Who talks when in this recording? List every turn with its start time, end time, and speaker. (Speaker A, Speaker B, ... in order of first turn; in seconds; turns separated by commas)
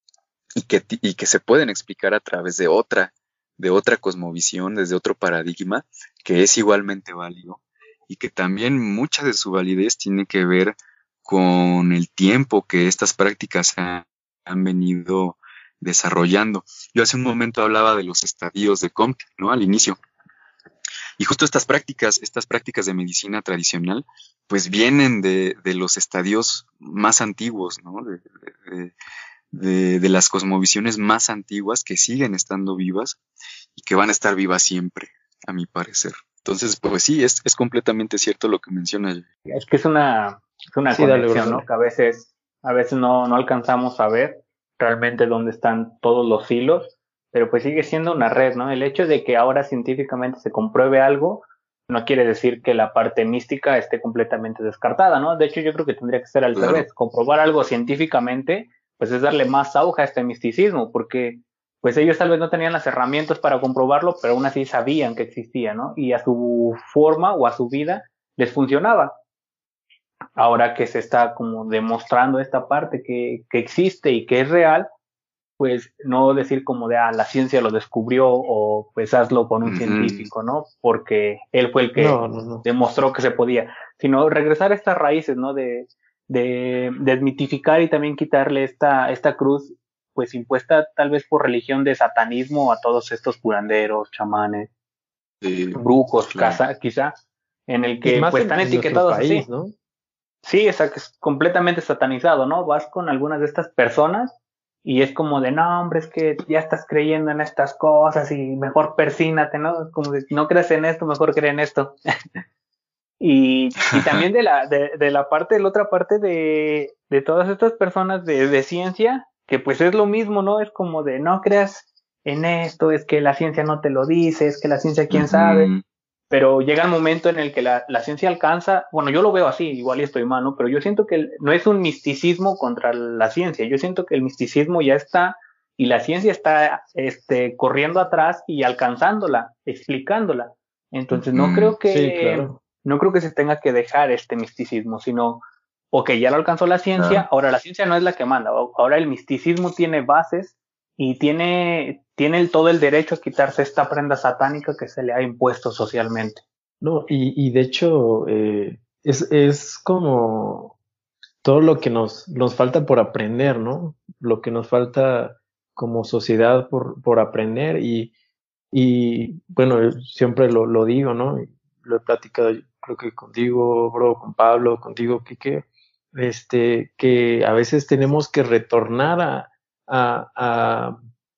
Speaker A: 0.6-20.0, Speaker A: 21.2-28.9, Speaker A: 29.5-33.2, Speaker A: 33.8-39.2, Speaker B: 39.5-69.1, Speaker C: 40.9-41.6, Speaker A: 56.5-56.9, Speaker B: 70.4-74.9, Speaker B: 75.6-94.7, Speaker A: 79.6-80.3, Speaker C: 82.0-82.7, Speaker A: 95.4-96.6, Speaker B: 95.7-97.2, Speaker B: 97.7-99.4, Speaker C: 98.0-99.7, Speaker B: 100.4-112.0, Speaker B: 113.2-125.7, Speaker A: 113.9-114.2, Speaker A: 125.1-125.8, Speaker B: 126.3-156.4, Speaker A: 141.1-141.8, Speaker C: 141.9-142.6, Speaker A: 147.0-147.2, Speaker C: 156.8-160.7, Speaker C: 161.4-168.1, Speaker C: 168.7-181.0